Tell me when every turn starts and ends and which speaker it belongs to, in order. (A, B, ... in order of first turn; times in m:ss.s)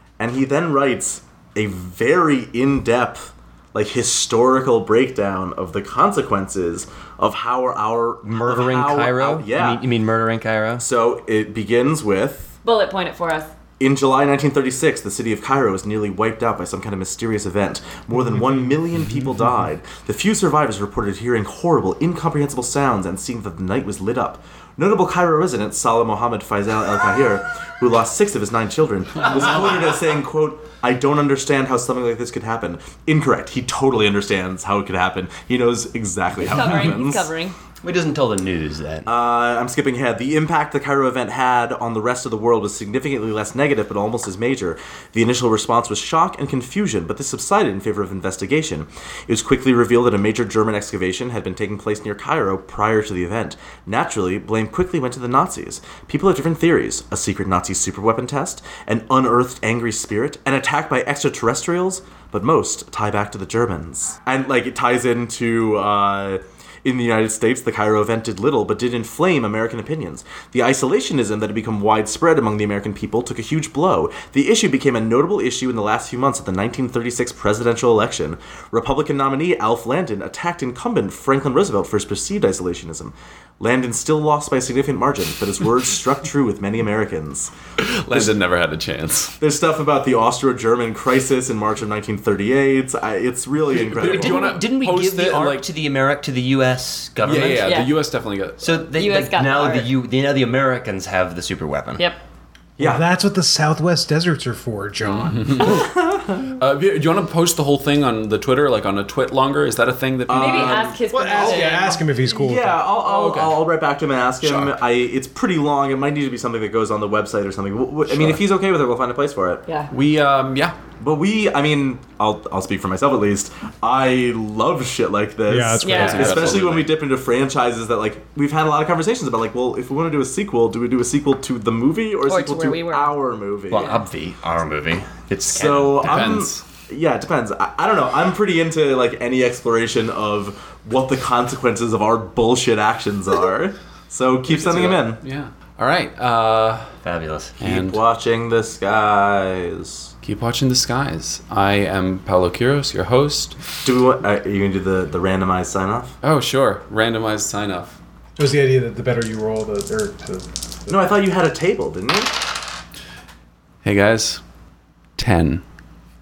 0:00.2-0:09.9 A
0:08.2-0:10.8 B
0:10.8-0:12.6 A
0:12.6-0:13.5 C
0:13.8-0:37.3 A
0:36.4-0:37.6 C
0:37.8-0:39.1 B
0:39.0-1:27.5 A
1:27.8-1:29.4 D
1:29.4-1:34.5 A
1:33.9-1:35.6 D
1:34.0-1:37.7 B
1:37.2-1:38.8 D
1:37.6-1:37.9 C
1:38.6-1:42.1 B
1:38.9-1:40.0 C
1:42.8-1:43.1 A
1:42.8-1:45.8 E
1:45.2-1:45.9 D
1:45.7-1:46.4 A
1:46.4-1:50.8 D
1:50.3-1:59.6 A
1:50.3-1:52.0 C
1:51.1-1:52.8 E
1:53.0-1:53.6 D
1:54.4-1:54.7 D
1:58.1-1:58.4 D
1:59.9-2:00.8 D
2:01.0-2:14.0 A
2:05.5-2:06.4 E
2:05.8-2:06.3 C
2:05.9-2:07.0 D
2:12.2-2:13.1 C
2:13.7-2:16.3 B
2:15.5-2:25.2 A
2:16.0-2:16.6 D
2:24.5-2:26.9 D
2:27.0-2:27.5 B
2:27.6-2:28.0 D
2:27.6-2:30.1 A
2:30.2-2:33.6 D
2:33.8-2:36.1 A
2:36.2-2:38.0 D
2:38.4-2:41.1 E
2:40.9-2:42.3 A
2:43.8-2:44.4 D
2:45.2-2:45.6 D